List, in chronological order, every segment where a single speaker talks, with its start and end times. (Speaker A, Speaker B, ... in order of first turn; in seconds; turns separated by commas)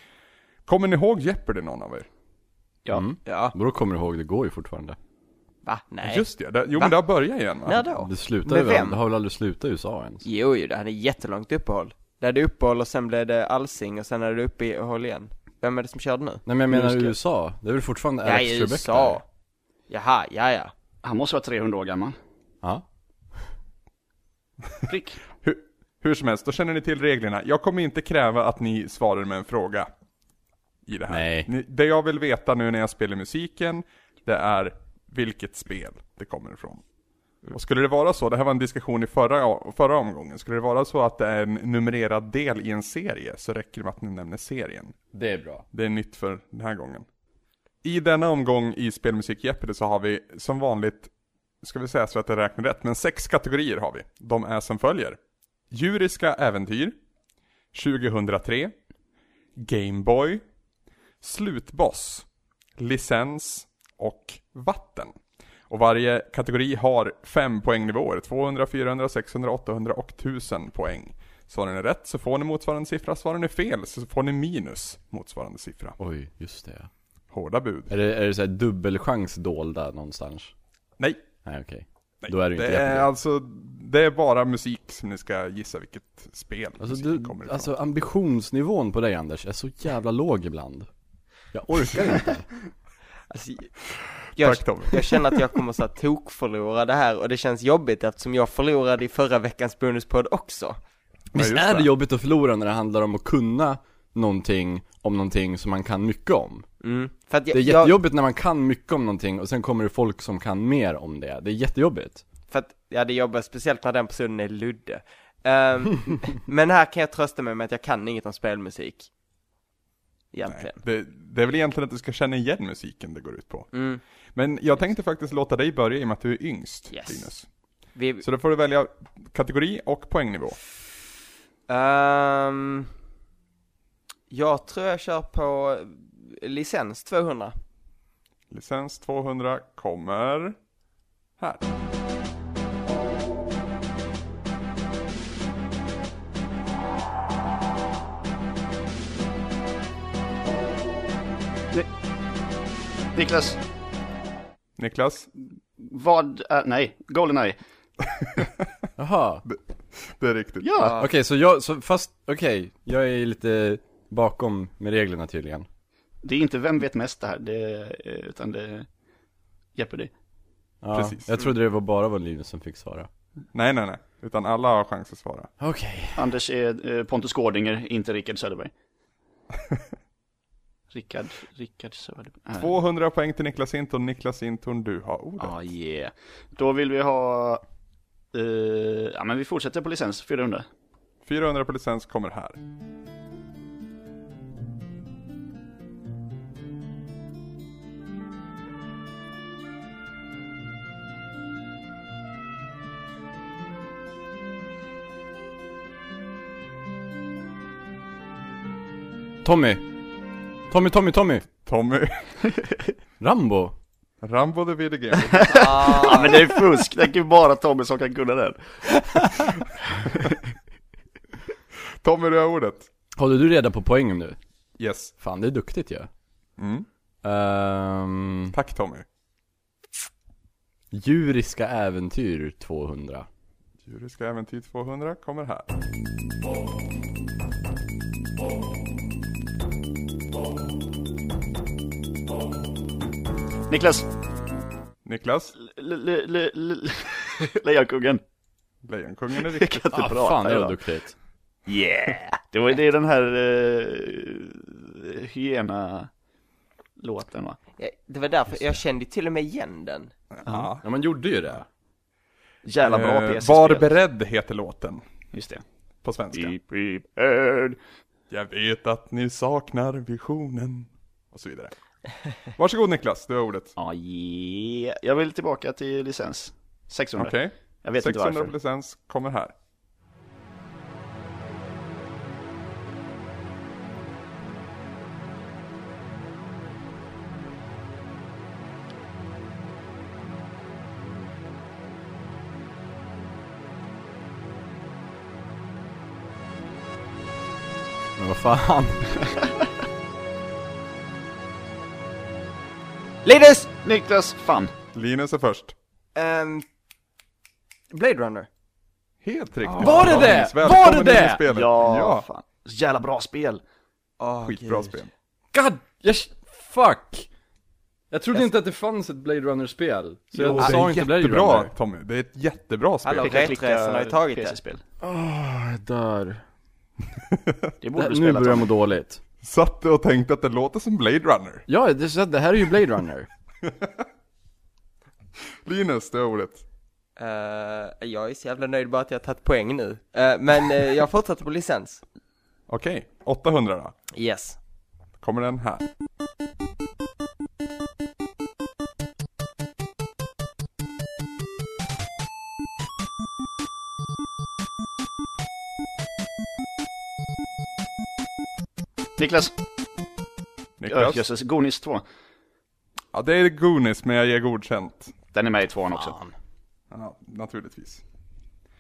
Speaker A: 0.7-2.1, Speaker B: 2.9-5.0, Speaker C: 3.2-3.5, Speaker C: 5.6-7.0, Speaker A: 6.0-7.9, Speaker C: 7.6-9.0, Speaker B: 7.9-10.2, Speaker C: 10.2-16.4, Speaker B: 16.4-19.2, Speaker D: 16.7-17.1, Speaker C: 18.2-19.2, Speaker C: 19.9-20.7, Speaker D: 21.0-22.2, Speaker D: 24.9-25.2, Speaker A: 25.4-29.9, Speaker A: 30.9-36.8, Speaker B: 31.1-31.5, Speaker A: 37.5-45.0, Speaker B: 45.1-45.6, Speaker A: 45.7-47.0, Speaker A: 47.8-51.1, Speaker A: 51.6-55.2, Speaker A: 55.7-57.0, Speaker A: 57.7-58.7, Speaker A: 59.6-60.4, Speaker A: 61.2-62.3, Speaker A: 62.8-65.1, Speaker A: 65.7-76.0, Speaker B: 76.0-76.9, Speaker A: 77.3-77.9, Speaker B: 77.9-80.5, Speaker A: 81.0-81.2, Speaker B: 81.4-83.1, Speaker A: 82.2-87.7, Speaker B: 86.8-90.9, Speaker B: 91.5-92.5, Speaker C: 93.3-93.7, Speaker A: 94.4-95.1, Speaker C: 94.4-100.8, Speaker B: 101.3-106.7, Speaker A: 101.3-101.9, Speaker C: 106.8-108.0, Speaker B: 107.5-112.2, Speaker C: 112.5-119.1, Speaker C: 120.3-120.8, Speaker A: 120.5-123.7, Speaker C: 123.7-124.0, Speaker A: 124.3-127.5, Speaker C: 126.9-127.3, Speaker C: 128.0-128.3, Speaker A: 128.2-130.6, Speaker C: 131.7-132.9, Speaker C: 134.3-137.6, Speaker A: 138.5-140.6, Speaker A: 141.4-141.6, Speaker D: 153.1-153.6, Speaker A: 154.8-155.3, Speaker D: 155.8-157.6, Speaker A: 158.2-158.5, Speaker B: 159.0-159.4, Speaker A: 159.4-160.7, Speaker D: 160.6-161.0, Speaker C: 160.8-161.1, Speaker B: 161.0-165.7, Speaker D: 166.2-168.9, Speaker D: 169.8-170.1, Speaker B: 170.8-173.1, Speaker A: 170.9-171.5, Speaker A: 173.5-175.5, Speaker B: 175.6-176.3, Speaker D: 176.2-178.7, Speaker D: 180.9-182.7, Speaker A: 182.6-185.6, Speaker D: 185.4-187.6, Speaker D: 188.3-190.6, Speaker A: 191.2-192.6, Speaker B: 209.4-209.9, Speaker B: 210.7-211.5, Speaker A: 211.6-212.2, Speaker B: 213.2-213.7, Speaker A: 214.2-216.2, Speaker D: 215.3-219.1, Speaker C: 215.5-216.4, Speaker A: 222.0-222.9, Speaker B: 223.2-224.4, Speaker A: 224.8-225.1, Speaker B: 225.2-226.1, Speaker A: 226.6-226.9, Speaker B: 227.2-228.6, Speaker A: 228.5-229.1, Speaker B: 230.9-233.3, Speaker A: 233.8-235.7, Speaker D: 243.7-244.1, Speaker A: 245.1-245.6, Speaker D: 245.6-248.2, Speaker A: 248.8-249.9, Speaker D: 249.4-250.8, Speaker B: 249.9-251.1, Speaker D: 251.7-256.1, Speaker D: 257.0-257.6, Speaker C: 257.8-260.1, Speaker A: 260.3-260.8, Speaker B: 260.8-261.7, Speaker D: 262.6-264.0, Speaker A: 262.8-265.0, Speaker D: 265.3-265.6, Speaker A: 266.0-266.5, Speaker D: 266.3-267.8, Speaker A: 268.3-271.7, Speaker A: 272.5-273.7, Speaker D: 273.8-278.5, Speaker A: 277.2-279.5, Speaker B: 298.2-299.2, Speaker C: 303.2-303.7, Speaker D: 303.8-304.7, Speaker A: 304.9-305.7, Speaker C: 306.1-306.6, Speaker C: 307.9-308.5, Speaker A: 309.2-312.3, Speaker D: 309.7-310.5, Speaker B: 309.8-311.5, Speaker D: 311.4-313.6, Speaker C: 314.2-315.0, Speaker A: 314.4-315.1, Speaker B: 315.5-317.3, Speaker B: 318.1-321.7, Speaker D: 320.4-320.8, Speaker A: 320.5-323.5, Speaker C: 323.0-324.6, Speaker D: 323.2-324.8, Speaker B: 325.0-326.4, Speaker D: 327.8-328.7, Speaker B: 327.9-329.2, Speaker A: 329.4-331.6, Speaker B: 331.7-333.3, Speaker A: 333.6-334.0, Speaker A: 335.6-336.6, Speaker C: 337.2-342.0, Speaker A: 342.7-343.9, Speaker C: 344.1-344.6, Speaker A: 345.2-345.9, Speaker D: 359.2-359.5, Speaker A: 360.8-361.3, Speaker D: 360.9-362.0, Speaker A: 363.1-365.1, Speaker D: 365.3-366.2, Speaker B: 365.9-366.3, Speaker A: 366.9-368.0